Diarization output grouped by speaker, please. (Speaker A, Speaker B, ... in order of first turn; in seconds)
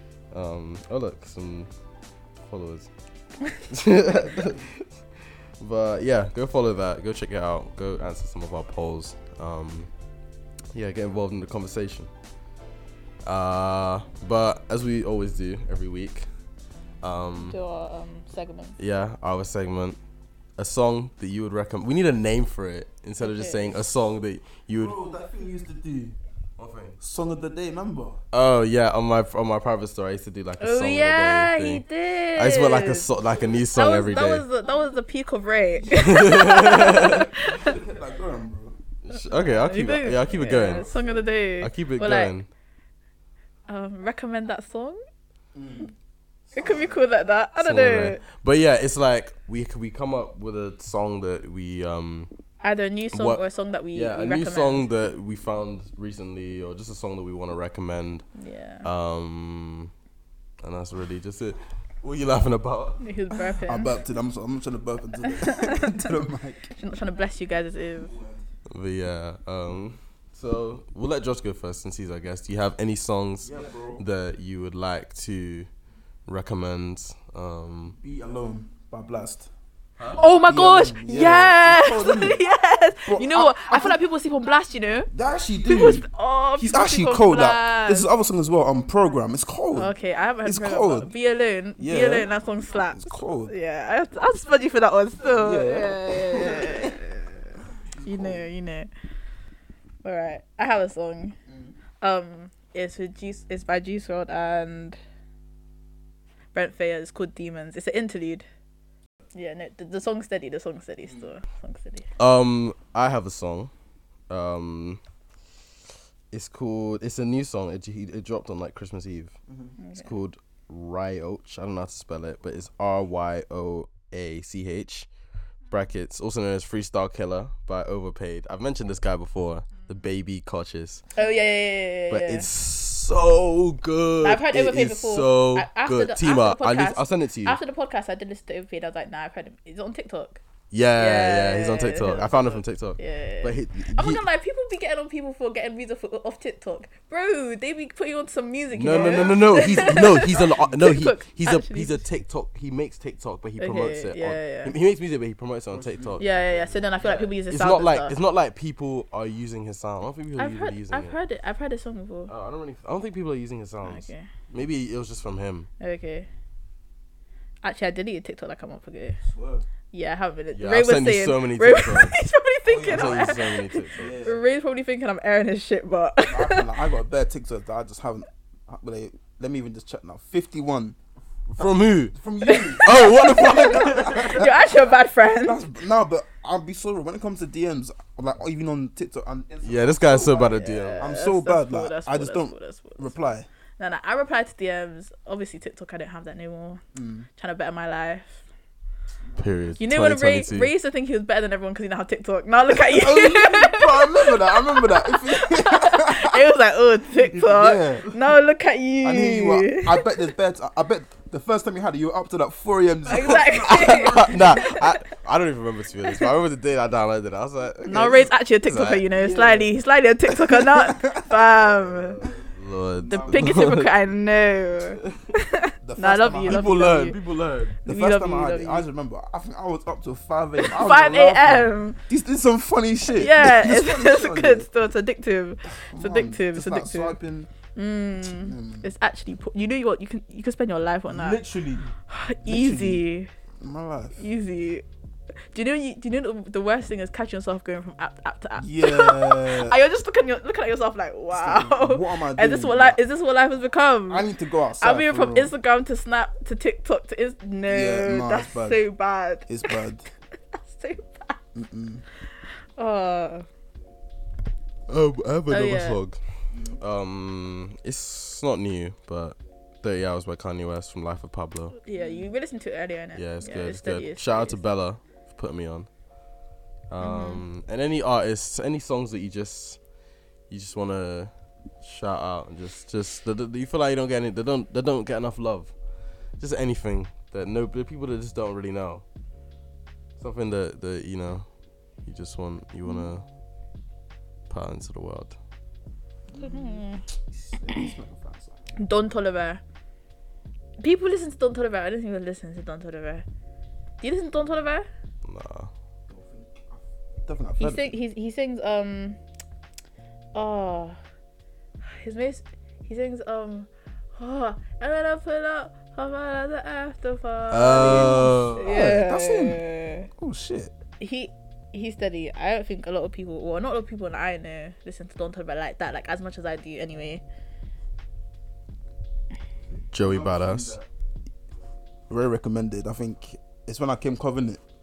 Speaker A: 0.3-1.7, 2.5-2.9, 3.6-4.8, 5.6-9.9, 10.7-12.1, 13.2-16.3, 17.0-17.6, 18.8-20.0, 20.6-25.0, 26.6-27.0, 28.3-34.5, 35.9-37.3, 39.0-40.8, 41.6-42.5, 47.6-52.3, 53.1-53.4, 53.9-58.3, 58.8-59.9, 60.6-63.0, 68.7-75.7, 76.3-78.0, 112.2-113.7, 114.3-115.0, 116.3-119.3, 120.0-125.1, 125.7-131.0, 132.1-137.6, 140.7-144.2, 148.8-156.3, 157.5-161.2, 162.3-165.7, 170.5-172.2, 172.8-174.2, 181.5-182.2, 182.8-184.5, 189.6-191.1, 199.4-200.7, 213.7-219.1, 222.5-223.4, 226.5-227.8, 264.9-266.2, 266.8-271.8, 273.2-275.9, 276.9-279.8, 280.5-281.3, 281.8-285.7, 286.4-289.0, 290.2-291.5, 292.1-293.2, 294.5-295.4, 305.2-305.7, 317.5-318.8, 329.9-330.8
Speaker B: 17.4-18.8, 23.2-23.8, 30.6-33.1, 33.7-37.7, 39.1-42.4, 43.7-45.0, 46.6-48.2, 52.6-54.9, 58.4-58.9, 63.0-64.0, 65.3-66.0, 66.7-68.1, 80.2-85.1, 85.6-88.1, 89.7-98.9, 100.0-101.4, 102.0-105.0, 106.5-108.5, 109.3-112.1, 119.8-120.1, 131.2-132.5, 134.2-140.4, 141.0-152.0, 153.6-154.8, 156.2-158.2, 160.4-162.3, 163.9-164.3, 165.8-166.3, 167.6-169.2, 169.9-176.7, 182.4-185.8, 190.4-193.1, 193.8-196.8, 197.4-198.4, 199.8-210.1, 213.1-215.0, 216.0-216.3, 217.8-222.2, 223.1-227.2, 227.8-228.9, 230.6-232.0, 233.1-237.2, 237.8-241.4, 242.1-243.3, 244.2-244.8, 245.5-254.3, 254.8-259.8, 260.6-261.4, 262.8-263.5, 265.5-266.0, 271.9-274.6, 277.0-277.4, 296.4-297.0, 298.8-299.6, 300.8-303.2, 304.0-304.9, 307.6-309.2, 310.3-311.0, 311.8-320.1, 321.0-327.2
Speaker C: 24.7-26.2, 27.0-28.2, 36.9-38.8, 40.6-41.2, 45.5-45.9, 46.5-47.0, 63.5-66.7, 68.0-68.4, 73.4-74.0, 78.0-79.5, 80.4-82.4, 83.1-84.0, 85.1-86.0, 86.6-89.9, 90.4-91.1, 91.8-92.3, 92.9-93.5, 95.3-97.0, 97.7-98.5, 101.5-101.8, 119.5-119.8, 148.9-150.8, 155.7-157.3, 169.2-169.7, 172.7-173.4, 174.0-174.4, 176.3-181.0, 181.6-184.6, 185.4-193.5, 196.9-197.3, 202.7-206.4, 207.2-208.1, 209.0-214.6, 219.1-219.8, 220.3-223.9, 225.8-227.1, 227.8-234.7, 235.7-237.5, 238.2-238.9, 241.1-241.9, 242.5-243.0, 243.6-244.2, 248.6-249.8, 251.3-253.0, 254.1-255.5, 257.7-258.8, 259.5-260.1, 261.6-262.0, 266.5-266.8, 272.0-272.3, 296.3-298.6, 306.1-308.0, 317.8-320.7, 329.7-330.9, 332.1-334.6